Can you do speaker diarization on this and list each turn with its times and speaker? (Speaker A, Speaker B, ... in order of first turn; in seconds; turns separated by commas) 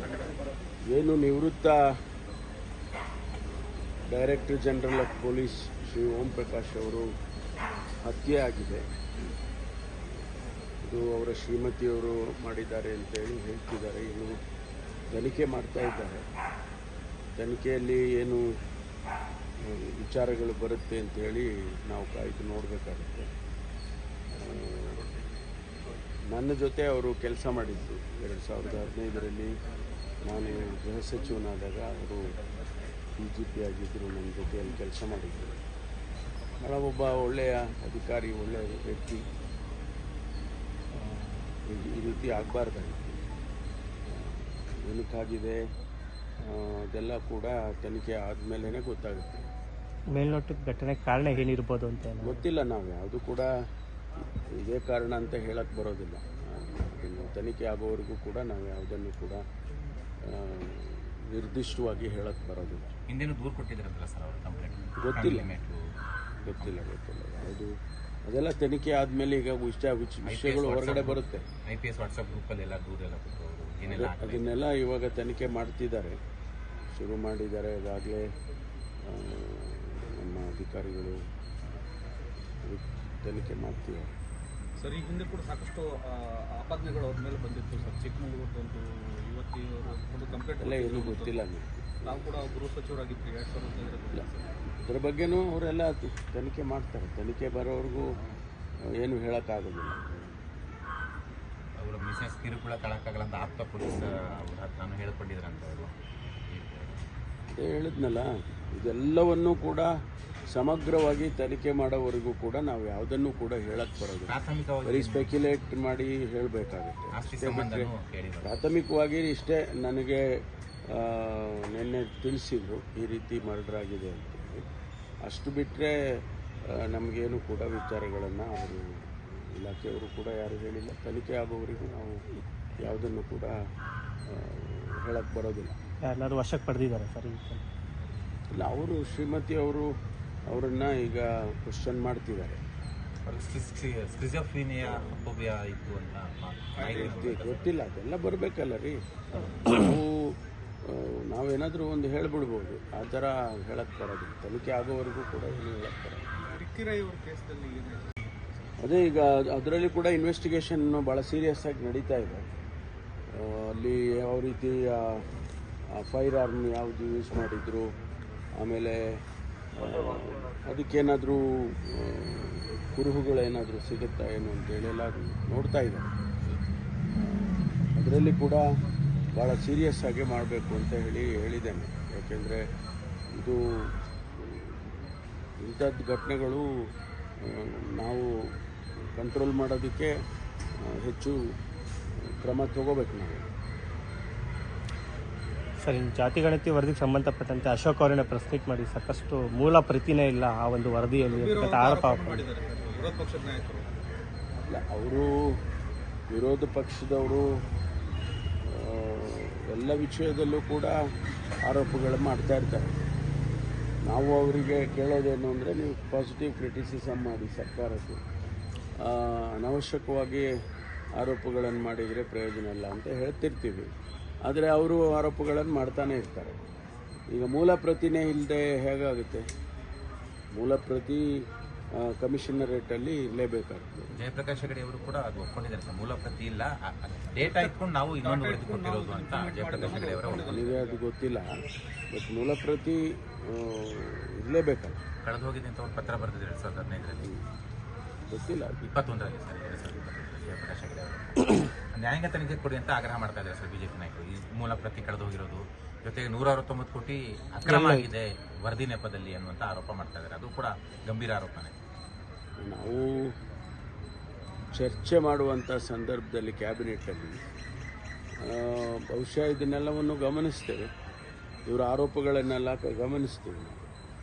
Speaker A: 0.9-1.8, Speaker A: 4.1-7.1, Speaker A: 8.1-8.8, Speaker A: 10.9-14.4, Speaker A: 15.1-16.2, Speaker A: 17.4-18.4, Speaker A: 19.9-23.3, Speaker A: 24.4-25.0, Speaker A: 26.3-29.6, Speaker A: 30.2-32.3, Speaker A: 33.2-35.5, Speaker A: 36.6-39.2, Speaker A: 41.0-43.2, Speaker A: 44.1-45.6, Speaker A: 46.5-49.5, Speaker B: 50.1-52.4, Speaker A: 52.2-53.5, Speaker A: 54.5-59.4, Speaker A: 60.2-62.9, Speaker C: 63.1-65.8, Speaker A: 65.0-65.5, Speaker A: 66.5-67.7, Speaker A: 68.3-71.5, Speaker C: 70.3-74.6, Speaker A: 73.9-76.2, Speaker A: 77.0-78.2, Speaker A: 79.1-81.2, Speaker A: 82.7-84.1, Speaker D: 84.8-91.4, Speaker A: 90.6-92.0, Speaker D: 92.0-94.5, Speaker A: 94.1-98.1, Speaker A: 99.0-100.1, Speaker C: 101.8-105.9, Speaker C: 106.5-107.0, Speaker A: 107.5-109.9, Speaker A: 110.5-117.9, Speaker C: 114.3-115.3, Speaker C: 117.2-118.6, Speaker A: 118.4-120.2, Speaker A: 121.0-124.7, Speaker A: 125.3-125.9, Speaker A: 126.9-128.8, Speaker A: 129.6-132.2, Speaker A: 132.8-133.5, Speaker A: 134.3-135.7, Speaker B: 136.1-137.6, Speaker A: 138.6-139.9, Speaker A: 140.5-142.6, Speaker C: 143.2-147.8, Speaker D: 146.8-147.4, Speaker A: 146.9-150.3, Speaker A: 150.9-156.2, Speaker D: 156.4-158.8, Speaker A: 158.8-162.4, Speaker A: 163.3-165.2, Speaker A: 166.0-167.9, Speaker A: 168.6-169.0, Speaker A: 169.8-176.2, Speaker A: 177.2-178.6, Speaker A: 179.4-182.6, Speaker A: 184.4-184.8, Speaker A: 185.6-186.6, Speaker A: 187.5-188.3, Speaker A: 189.2-190.1, Speaker A: 191.0-191.4, Speaker A: 192.4-193.4, Speaker B: 195.8-202.5, Speaker D: 201.2-203.9, Speaker A: 204.7-205.3, Speaker A: 206.3-207.4, Speaker A: 208.7-210.9, Speaker A: 211.7-212.9, Speaker A: 214.1-218.2, Speaker A: 219.0-220.5, Speaker A: 221.2-223.9, Speaker A: 224.5-226.6, Speaker A: 227.3-229.4, Speaker A: 230.6-231.2, Speaker A: 232.0-234.2, Speaker C: 234.2-240.7, Speaker D: 237.3-241.0, Speaker A: 239.8-241.5, Speaker A: 242.1-245.0, Speaker C: 245.2-247.3, Speaker A: 248.3-248.9, Speaker C: 248.8-261.7, Speaker B: 257.7-258.1, Speaker A: 262.6-263.2, Speaker A: 264.8-267.4, Speaker A: 268.4-270.9, Speaker A: 271.7-273.9